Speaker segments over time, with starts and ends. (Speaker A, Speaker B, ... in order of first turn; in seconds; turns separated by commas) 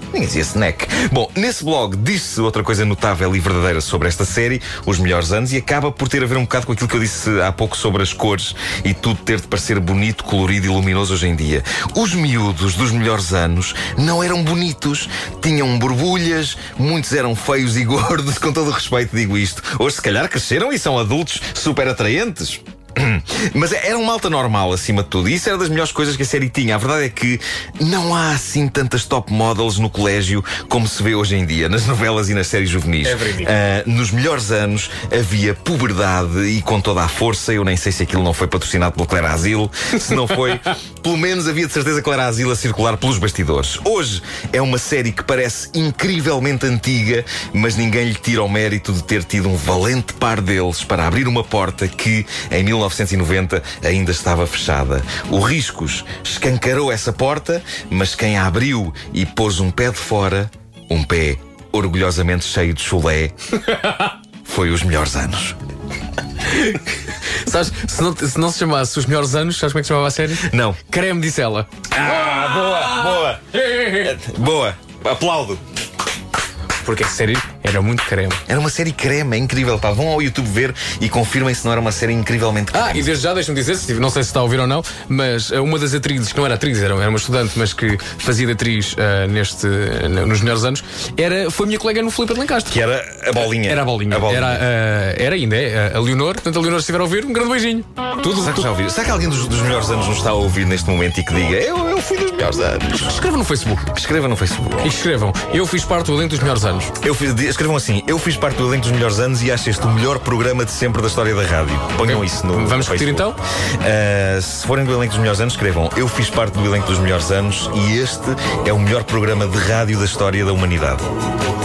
Speaker A: 0.1-63.3, Speaker B: 33.0-33.5, Speaker A: 64.4-65.6, Speaker B: 66.5-66.8, Speaker B: 67.4-74.1, Speaker A: 70.4-70.8, Speaker A: 71.9-75.6, Speaker B: 76.8-78.4, Speaker A: 78.5-83.1, Speaker B: 82.7-92.8, Speaker A: 92.7-94.6, Speaker B: 93.3-98.7, Speaker A: 98.3-103.2, Speaker B: 102.9-103.9, Speaker A: 103.9-104.9, Speaker B: 104.8-106.9, Speaker A: 107.0-121.0, Speaker B: 112.0-113.4